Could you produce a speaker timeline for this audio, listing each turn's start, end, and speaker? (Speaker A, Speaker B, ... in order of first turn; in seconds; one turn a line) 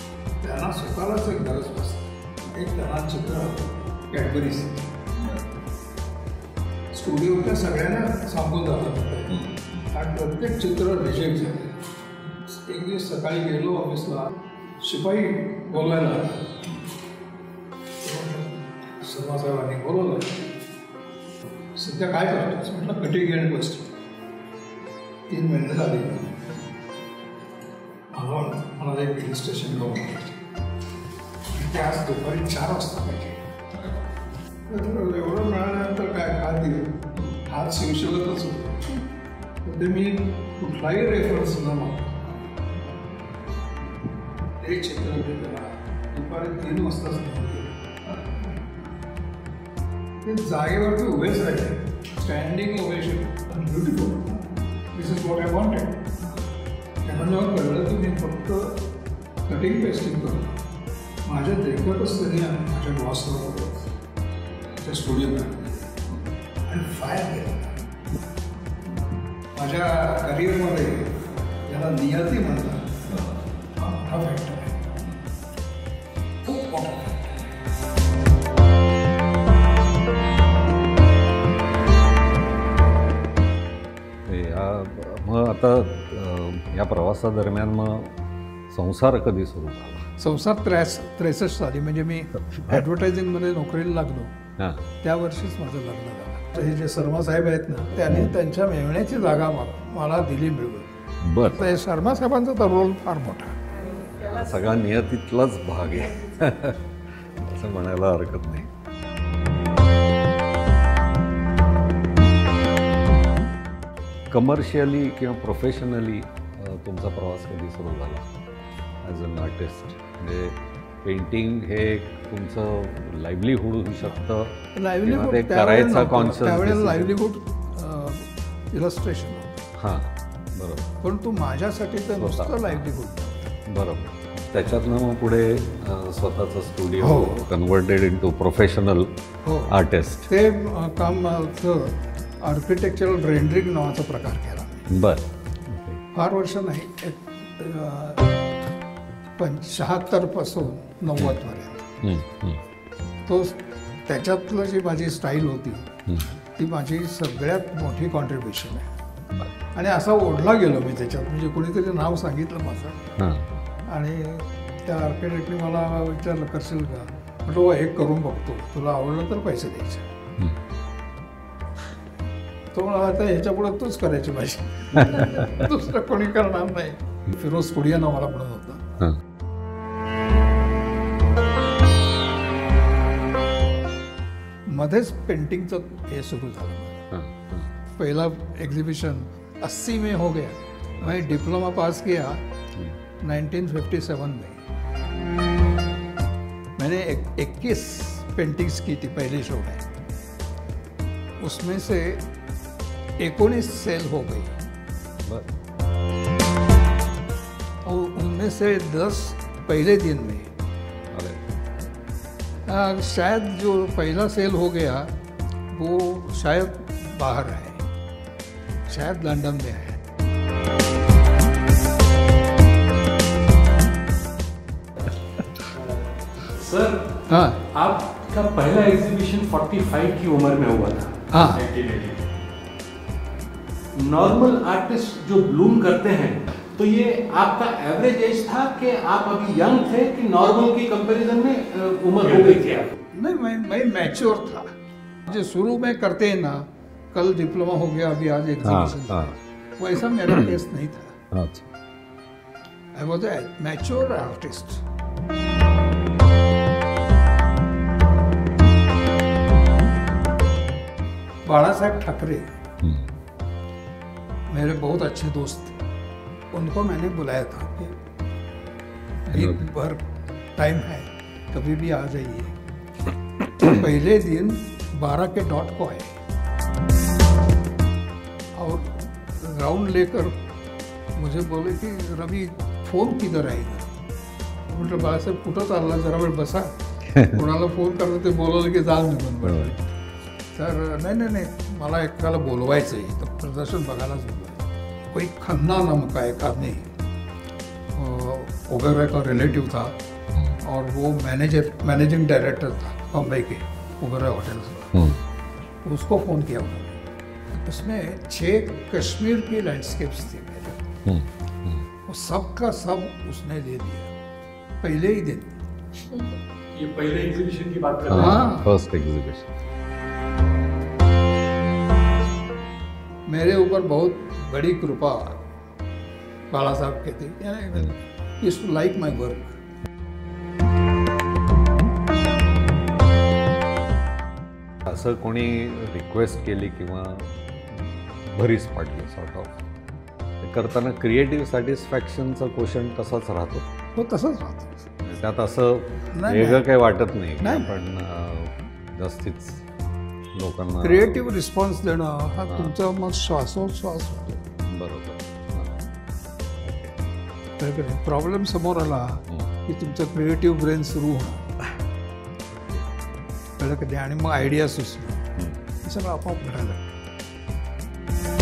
Speaker A: 0.4-4.9
Speaker A: 6.9-11.8
Speaker B: 9.3-9.9
Speaker A: 12.4-16.6
Speaker A: 18.0-20.5
Speaker A: 21.7-23.9
Speaker A: 25.3-26.5
Speaker A: 28.1-30.4
Speaker A: 31.5-33.5
Speaker A: 34.7-39.0
Speaker A: 39.6-42.4
Speaker A: 44.6-48.5
Speaker A: 50.2-56.2
Speaker A: 57.0-58.9
Speaker A: 59.5-60.5
Speaker A: 61.2-63.9
Speaker A: 64.8-65.9
Speaker A: 66.7-67.7
Speaker A: 69.5-73.0
Speaker B: 73.1-73.3
Speaker A: 73.8-74.9
Speaker A: 76.4-77.3
Speaker B: 84.2-88.2
Speaker B: 88.7-90.1
Speaker A: 90.2-94.3
Speaker B: 94.6-94.8
Speaker A: 95.0-100.9
Speaker B: 101.2-101.7
Speaker A: 101.5-103.6
Speaker B: 104.0-108.7
Speaker B: 114.3-118.3
Speaker B: 119.0-127.1
Speaker A: 124.7-129.7
Speaker B: 129.8-130.9
Speaker A: 131.0-133.6
Speaker B: 132.2-132.9
Speaker B: 133.7-139.1
Speaker A: 137.0-137.4
Speaker A: 139.4-139.7
Speaker B: 139.7-140.3
Speaker A: 140.3-144.8
Speaker B: 144.9-146.0
Speaker A: 146.1-148.2
Speaker A: 149.4-151.9
Speaker B: 152.0-152.6
Speaker A: 153.2-155.9
Speaker A: 156.6-158.9
Speaker A: 159.7-163.1
Speaker B: 163.2-163.5
Speaker A: 163.9-170.1
Speaker A: 172.7-178.8
Speaker B: 174.9-175.7
Speaker A: 184.7-187.0
Speaker B: 187.1-187.7
Speaker A: 188.0-192.4
Speaker A: 193.2-194.6
Speaker A: 196.8-199.9
Speaker A: 201.4-202.2
Speaker A: 203.2-204.5
Speaker B: 205.2-205.5
Speaker A: 207.8-210.5
Speaker B: 211.1-211.9
Speaker A: 212.7-215.1
Speaker A: 215.7-217.8
Speaker A: 218.9-220.0
Speaker C: 225.7-232.2
Speaker A: 227.3-227.6
Speaker A: 231.3-231.6
Speaker C: 233.9-242.9
Speaker A: 243.1-244.7
Speaker A: 245.2-251.2
Speaker B: 248.6-249.4
Speaker B: 251.3-251.7
Speaker A: 252.9-254.8
Speaker A: 261.4-262.5
Speaker B: 262.8-263.1
Speaker A: 264.5-265.8
Speaker A: 266.5-267.9
Speaker A: 269.3-270.0
Speaker B: 269.3-269.6
Speaker A: 270.6-272.6
Speaker A: 273.6-276.2
Speaker A: 278.6-280.3
Speaker A: 281.1-283.9
Speaker A: 284.7-289.9
Speaker B: 287.1-287.4
Speaker B: 289.4-289.7
Speaker A: 290.5-296.9
Speaker A: 297.9-299.9
Speaker A: 300.6-305.0
Speaker A: 305.8-310.8
Speaker B: 311.1-311.9
Speaker A: 312.1-314.1
Speaker A: 314.8-315.6
Speaker C: 316.7-318.4
Speaker B: 318.1-319.5
Speaker A: 318.1-318.7
Speaker A: 323.3-325.4
Speaker A: 326.5-329.6
Speaker B: 334.8-339.6
Speaker B: 340.4-343.7
Speaker A: 343.9-344.9
Speaker B: 345.0-349.6
Speaker A: 346.1-346.7
Speaker A: 347.4-347.7
Speaker B: 350.3-351.2
Speaker A: 350.8-354.4
Speaker B: 354.7-355.8
Speaker B: 356.6-357.1
Speaker A: 357.6-361.5
Speaker B: 362.5-362.9
Speaker A: 363.6-365.2
Speaker B: 365.4-365.6
Speaker A: 365.8-366.9